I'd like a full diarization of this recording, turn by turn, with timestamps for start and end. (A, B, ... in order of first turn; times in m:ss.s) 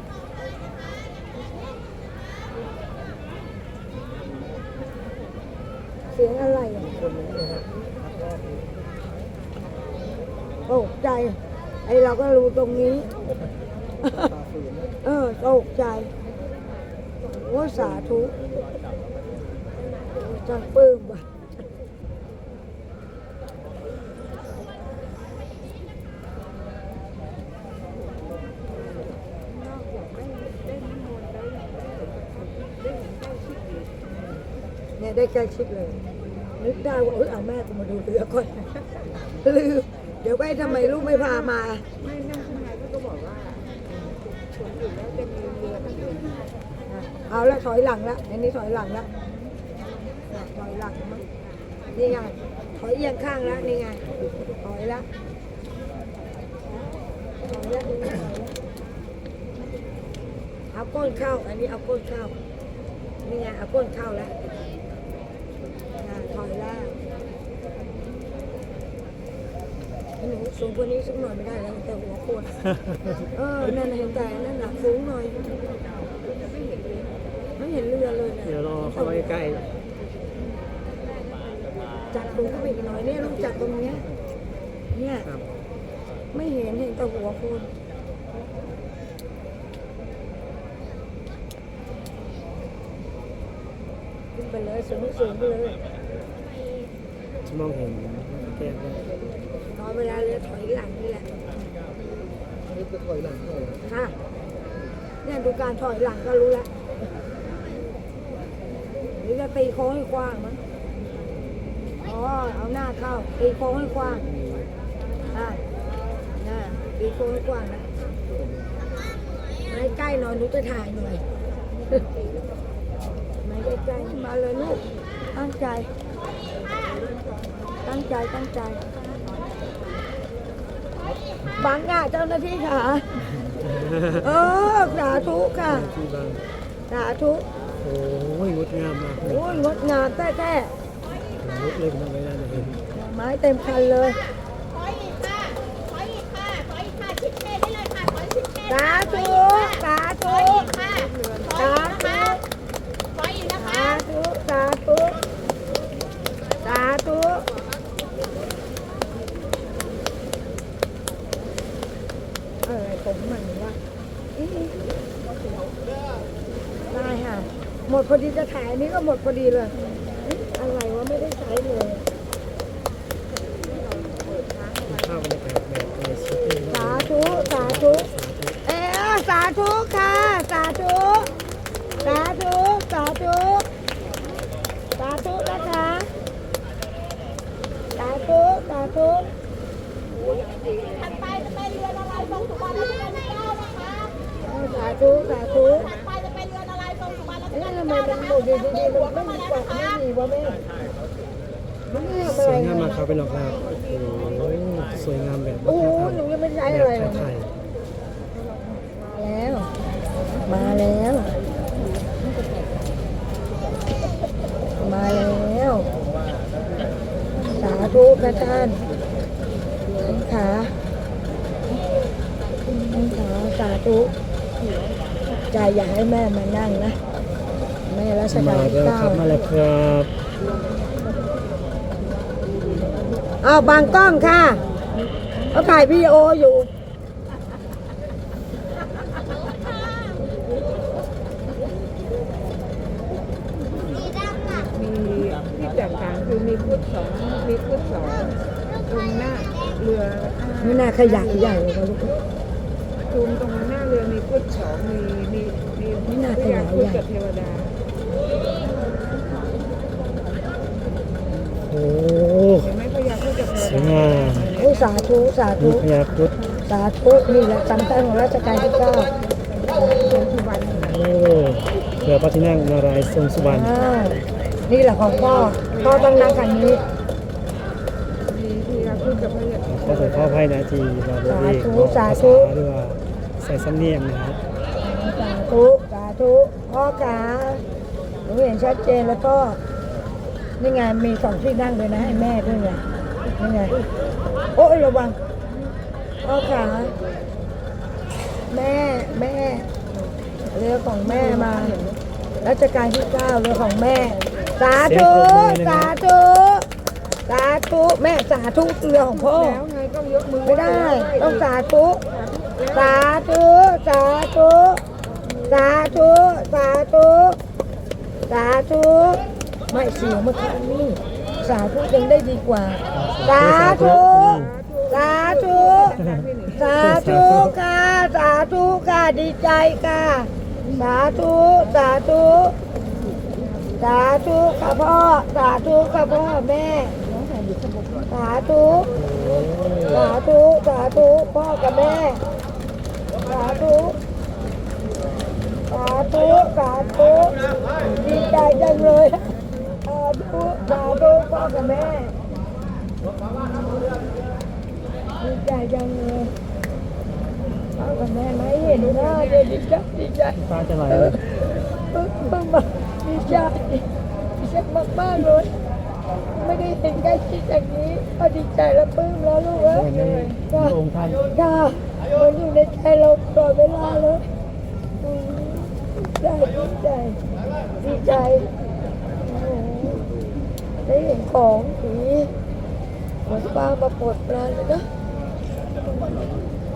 0:06.1-0:07.1 A
0:10.7-0:13.1 A
0:14.0-0:14.4 A
0:15.0-0:16.1 A
0:17.3-0:18.4 A
0:20.2-0:21.3 A
0:28.8-0:34.3 B
0:35.0-0:36.0 A
0:36.6-0:38.7 A
0:39.2-0:41.8 A
0:40.6-0:46.5 B
0:46.9-0:49.1 A
0:50.3-0:51.2 A
0:52.0-0:54.0 A
0:54.6-0:55.1 A
0:57.4-0:58.5 A
1:00.7-1:02.4 A
1:03.2-1:04.3 A
1:06.0-1:06.9 A
1:10.2-1:12.6 A
1:12.6-1:13.3 C
1:13.4-1:15.4 A
1:16.2-1:17.2 B
1:17.6-1:19.3 A
1:18.4-1:19.6 C
1:22.1-1:24.1 A
1:22.1-1:23.3 B
1:25.0-1:25.3 A
1:25.2-1:25.5 C
1:26.3-1:27.7 A
1:34.3-1:35.8 A
1:37.4-1:39.0 C
1:39.7-1:41.3 A
1:43.8-1:44.2 A
1:45.2-1:46.7 A
1:49.2-1:50.6 A
1:52.0-1:54.3 A
1:55.3-1:55.6 A
1:56.4-1:57.9 A
1:59.7-2:01.2 A
2:03.4-2:04.8 A
2:05.3-2:05.9 A
2:07.8-2:08.8 A
2:11.6-2:13.0 A
2:13.5-2:16.4 C
2:14.2-2:15.9 A
2:16.9-2:17.4 A
2:17.8-2:19.7 C
2:19.2-2:20.7 A
2:21.4-2:22.8 C
2:22.9-2:24.2 A
2:23.9-2:32.4 D
2:28.7-2:30.7 A
2:30.7-2:31.5 B
2:31.6-2:32.4 A
2:33.1-2:34.0 D
2:33.5-2:35.2 A
2:36.6-2:37.5 A
2:42.6-2:43.8 A
2:44.4-2:44.8 A
2:46.9-2:52.0 A
2:53.9-2:55.1 B
2:54.9-2:58.6 C
2:56.7-2:58.1 A
2:58.7-3:01.3 A
3:02.0-3:03.7 A
3:05.0-3:06.1 A
3:08.0-3:09.3 A
3:10.5-3:14.1 D
3:14.5-3:15.9 A
3:15.0-3:20.0 D
3:17.5-3:20.6 A
3:21.9-3:23.0 A
3:22.2-3:27.5 C
3:25.6-3:27.3 A
3:29.1-3:29.7 A
3:30.4-3:31.4 A
3:34.8-3:35.9 A
3:37.5-3:38.8 A
3:40.0-3:40.7 A
3:42.8-3:44.1 A
3:45.5-3:47.0 A
3:47.9-3:49.3 A
3:48.3-3:50.1 C
3:53.4-3:54.6 A
3:55.5-3:56.7 A
4:04.4-4:11.6 B
4:10.6-4:12.2 A
4:13.0-4:17.8 B
4:16.0-4:17.0 A
4:21.6-4:22.7 C
4:22.6-4:25.1 B
4:23.6-4:24.5 C
4:24.6-4:25.9 A
4:25.6-4:26.3 C
4:26.7-4:29.1 A
4:29.8-4:31.1 B
4:30.9-4:33.7 C
4:33.4-4:36.8 A
4:35.7-4:36.2 B
4:38.2-4:40.4 B
4:39.7-4:44.4 C
4:41.3-4:42.5 A
4:44.8-4:47.6 A
4:48.3-4:49.6 A
4:50.6-4:52.8 A
4:53.4-4:53.8 A
4:54.6-4:55.2 A
4:56.2-4:56.9 A
4:58.5-4:59.7 A
5:00.5-5:01.8 A
5:01.0-5:02.0 B
5:02.4-5:06.7 A
5:04.8-5:05.9 C
5:07.3-5:09.6 A
5:09.1-5:11.5 B
5:10.4-5:12.0 A
5:12.1-5:13.0 B
5:12.7-5:14.8 A
5:15.1-5:15.6 B
5:15.5-5:17.4 A
5:18.3-5:26.0 A
5:22.9-5:24.5 C
5:23.8-5:26.7 B
5:26.0-5:27.6 C
5:26.6-5:32.6 A
5:33.8-5:37.0 A
5:38.1-5:38.9 A
5:39.0-5:40.1 C
5:39.9-5:42.2 A
5:43.3-5:44.0 A
5:45.7-5:47.4 A
5:48.0-5:49.3 A
5:49.9-5:52.2 A
5:55.2-5:56.3 A
5:57.8-6:01.2 A
5:58.7-5:59.5 B
6:00.4-6:01.2 C
6:01.9-6:03.9 A
6:04.4-6:05.5 A
6:06.4-6:10.8 A
6:09.7-6:11.2 C
6:11.3-6:14.2 A
6:15.0-6:17.2 A
6:17.8-6:18.5 A
6:19.2-6:20.0 A
6:20.9-6:22.3 A
6:23.3-6:24.9 A